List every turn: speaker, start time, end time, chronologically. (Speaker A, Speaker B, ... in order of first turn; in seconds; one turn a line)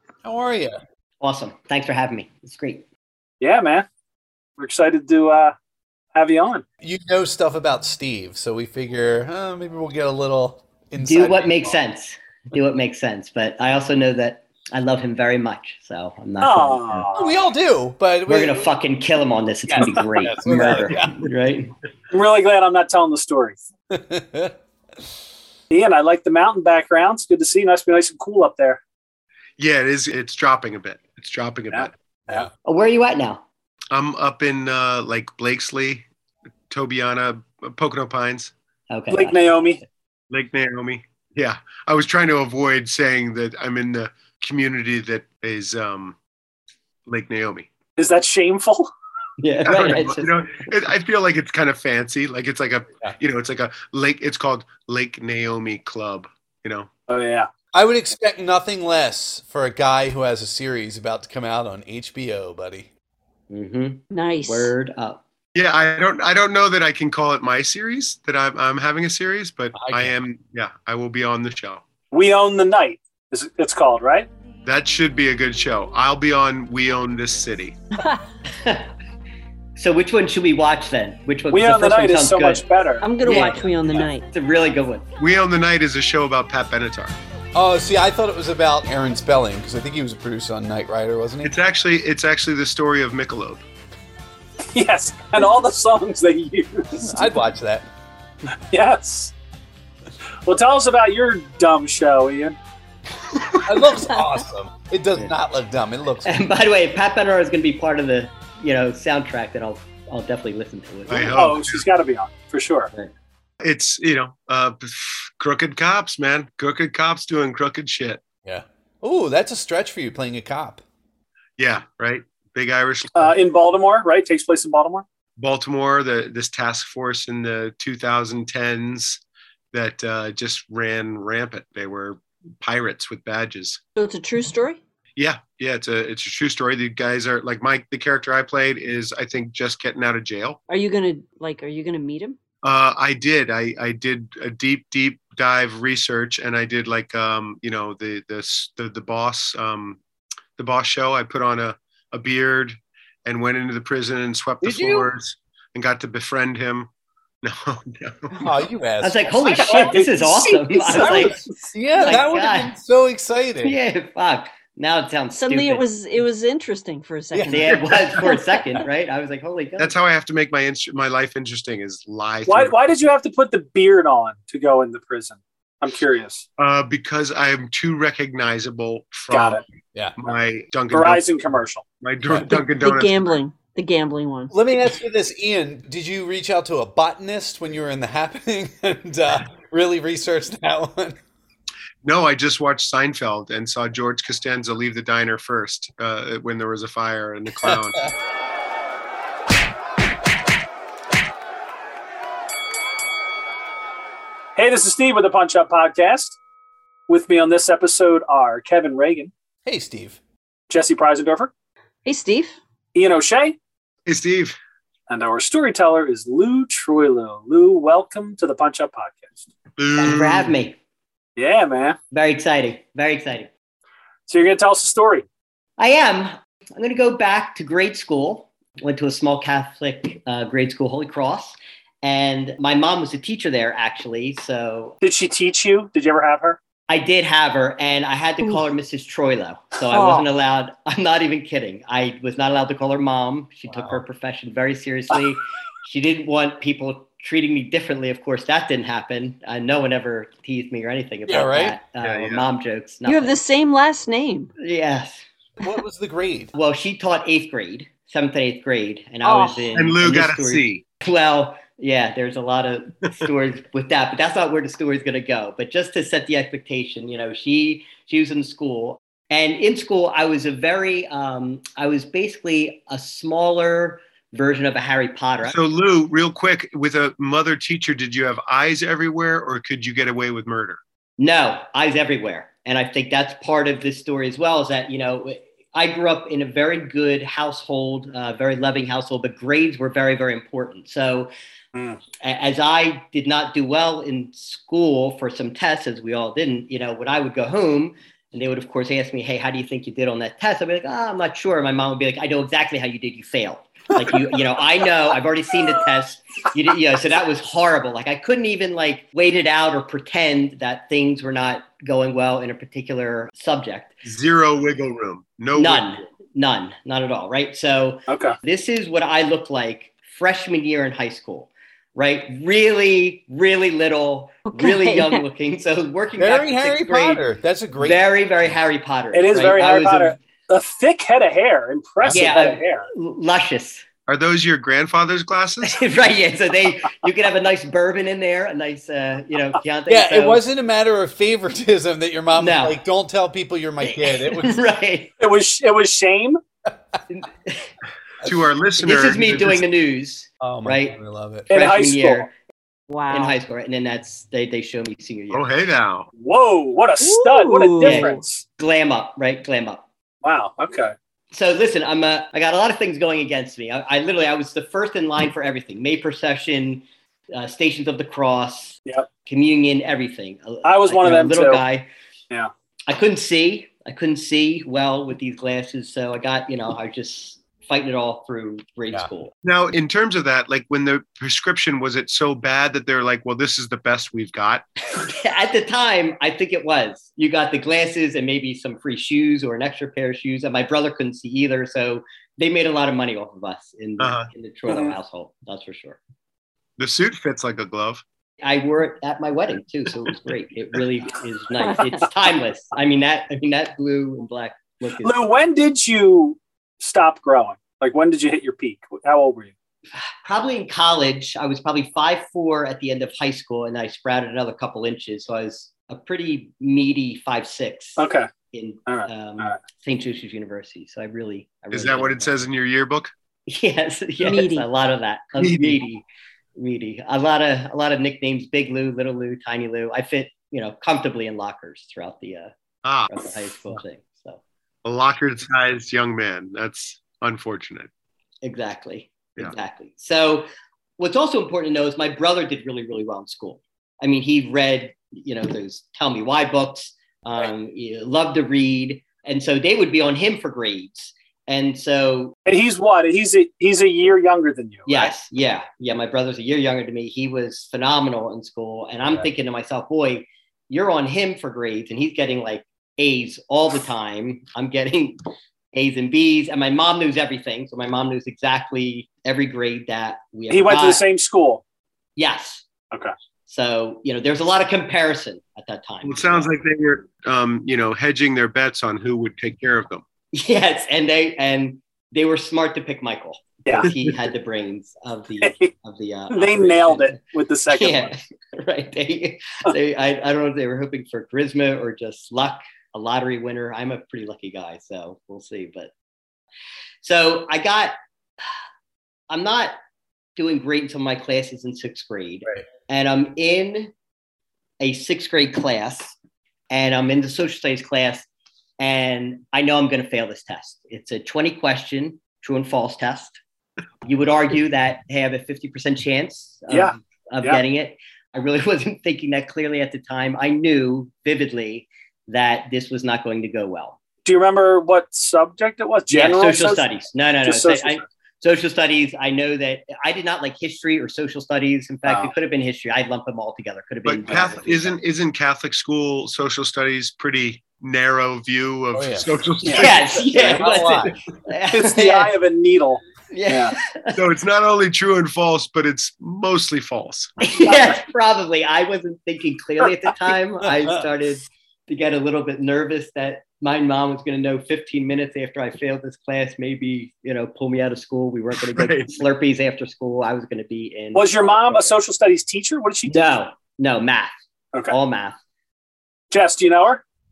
Speaker A: 0.2-0.8
Speaker B: 1.2-2.9
Speaker C: 3.4-3.9
Speaker C: 4.6-5.5
Speaker C: 6.1-6.6
Speaker A: 6.8-11.8
Speaker B: 11.0-17.1
Speaker C: 16.4-17.3
Speaker A: 17.1-18.7
Speaker B: 18.3-21.7
Speaker A: 19.7-21.2
Speaker C: 22.1-23.6
Speaker A: 23.9-24.6
Speaker C: 25.7-28.8
Speaker D: 29.6-31.9
Speaker C: 31.7-32.5
Speaker B: 32.6-33.4
Speaker D: 33.9-36.1
Speaker D: 36.7-38.5
Speaker B: 38.9-39.5
Speaker C: 39.1-39.8
Speaker D: 40.3-46.2
Speaker D: 47.1-47.7
Speaker C: 48.0-48.9
Speaker B: 49.4-50.4
Speaker D: 49.6-56.9
Speaker C: 57.1-57.5
Speaker A: 57.7-62.9
Speaker B: 63.5-65.2
Speaker E: 64.1-64.7
Speaker D: 65.5-71.8
Speaker A: 69.7-70.1
Speaker C: 72.1-74.3
Speaker D: 74.7-77.8
Speaker B: 78.5-78.9
Speaker B: 79.8-82.7
Speaker C: 81.5-83.1
Speaker E: 83.0-84.3
Speaker B: 83.2-85.0
Speaker D: 85.2-87.2
Speaker A: 87.5-91.6
Speaker D: 91.4-93.6
Speaker C: 94.7-97.2
Speaker A: 97.0-97.9
Speaker C: 98.7-99.3
Speaker C: 100.5-102.6
Speaker A: 103.7-106.4
Speaker B: 106.2-111.4
Speaker D: 111.1-111.9
Speaker C: 111.3-112.9
Speaker D: 113.6-118.2
Speaker A: 118.5-120.8
Speaker D: 121.6-123.3
Speaker C: 123.2-125.0
Speaker D: 125.4-129.2
Speaker D: 129.7-133.8
Speaker E: 134.0-134.8
Speaker D: 135.2-140.6
Speaker E: 140.7-142.4
Speaker D: 142.6-150.0
Speaker D: 150.6-156.9
Speaker A: 154.6-155.1
Speaker D: 157.4-158.5
Speaker A: 158.4-159.9
Speaker B: 159.0-161.4
Speaker C: 159.4-161.4
Speaker A: 160.9-163.8
Speaker B: 162.0-162.7
Speaker B: 163.6-165.8
Speaker E: 165.3-168.4
Speaker B: 167.5-170.0
Speaker D: 169.8-172.7
Speaker C: 172.5-176.5
Speaker D: 176.6-179.6
Speaker C: 179.3-179.6
Speaker D: 180.2-181.2
Speaker C: 180.9-181.8
Speaker D: 182.0-183.4
Speaker A: 182.3-182.6
Speaker E: 182.5-184.5
Speaker A: 184.5-191.2
Speaker D: 192.0-198.1
Speaker C: 204.6-206.4
Speaker C: 207.1-209.3
Speaker A: 209.7-210.2
Speaker C: 210.7-211.5
Speaker E: 212.1-212.6
Speaker C: 212.9-213.6
Speaker D: 214.1-214.6
Speaker C: 215.1-219.4
Speaker D: 219.8-220.6
Speaker B: 220.0-220.8
Speaker C: 221.4-222.0
Speaker B: 222.1-223.5
Speaker C: 224.3-225.2
Speaker B: 225.8-235.0
Speaker C: 235.0-236.6
Speaker B: 236.9-253.4
Speaker E: 239.9-240.3
Speaker A: 251.3-251.8
Speaker D: 252.0-252.4
Speaker E: 253.1-254.5
Speaker B: 254.6-255.2
Speaker A: 255.6-256.5
Speaker B: 256.5-275.6
Speaker E: 259.2-259.8
Speaker D: 259.8-260.8
Speaker D: 275.5-280.8
Speaker B: 281.2-291.3
Speaker C: 291.7-292.0
Speaker B: 292.2-314.0
Speaker D: 314.0-315.9
Speaker B: 315.6-327.3
Speaker C: 318.1-318.4
Speaker E: 324.5-325.2
Speaker A: 326.2-328.0
Speaker B: 327.8-330.1
Speaker C: 329.1-332.9
Speaker B: 332.1-333.8
Speaker D: 334.1-335.8
Speaker B: 335.6-340.4
Speaker A: 339.9-344.5
Speaker B: 342.4-342.8
Speaker B: 343.8-345.1
Speaker C: 345.2-346.4
Speaker B: 347.1-347.7
Speaker D: 348.2-349.6
Speaker B: 348.8-351.0
Speaker A: 350.4-351.5
Speaker B: 351.5-352.3
Speaker C: 351.5-352.3
Speaker E: 352.9-353.4
Speaker B: 353.1-355.5
Speaker D: 355.3-356.1
Speaker C: 356.2-358.4
Speaker E: 357.0-358.2
Speaker B: 357.8-359.8
Speaker C: 360.2-360.9
Speaker B: 361.3-371.9
Speaker C: 370.6-371.6
Speaker B: 372.9-379.3
Speaker D: 379.4-384.6
Speaker B: 385.0-396.0
Speaker D: 394.0-394.3
Speaker D: 396.8-398.0
Speaker B: 398.4-405.1
Speaker C: 405.0-409.5
Speaker B: 410.2-422.4
Speaker C: 418.0-418.3
Speaker C: 418.9-419.6
Speaker D: 421.7-423.1
Speaker B: 423.5-426.0
Speaker E: 424.2-424.7
Speaker D: 425.4-425.8
Speaker B: 426.6-432.5
Speaker D: 432.8-433.1
Speaker B: 433.1-434.4
Speaker D: 434.9-437.9
Speaker B: 438.4-440.5
Speaker B: 441.0-452.4
Speaker C: 452.5-455.1
Speaker B: 454.9-465.2
Speaker B: 465.7-471.0
Speaker C: 470.5-471.6
Speaker B: 472.2-472.6
Speaker B: 473.5-476.5
Speaker D: 476.0-480.0
Speaker B: 480.3-487.2
Speaker C: 483.6-483.9
Speaker D: 483.8-484.1
Speaker C: 485.4-485.7
Speaker C: 486.3-488.1
Speaker B: 487.7-495.9
Speaker B: 497.0-497.9
Speaker B: 499.3-499.7
Speaker B: 500.4-503.9
Speaker B: 504.8-506.1
Speaker B: 506.7-508.3
Speaker B: 508.8-513.4
Speaker B: 514.0-524.0
Speaker C: 516.7-517.6
Speaker C: 524.2-526.9
Speaker B: 526.1-535.0
Speaker C: 527.4-528.0
Speaker C: 532.1-532.3
Speaker D: 534.0-540.7
Speaker A: 538.9-539.3
Speaker B: 539.7-542.3
Speaker A: 540.1-541.1
Speaker C: 541.7-543.8
Speaker B: 543.3-544.2
Speaker D: 544.2-547.4
Speaker B: 547.4-561.9
Speaker A: 550.6-551.0
Speaker D: 558.8-559.1
Speaker C: 561.1-563.2
Speaker B: 563.1-564.3
Speaker B: 564.9-565.4
Speaker C: 566.3-567.0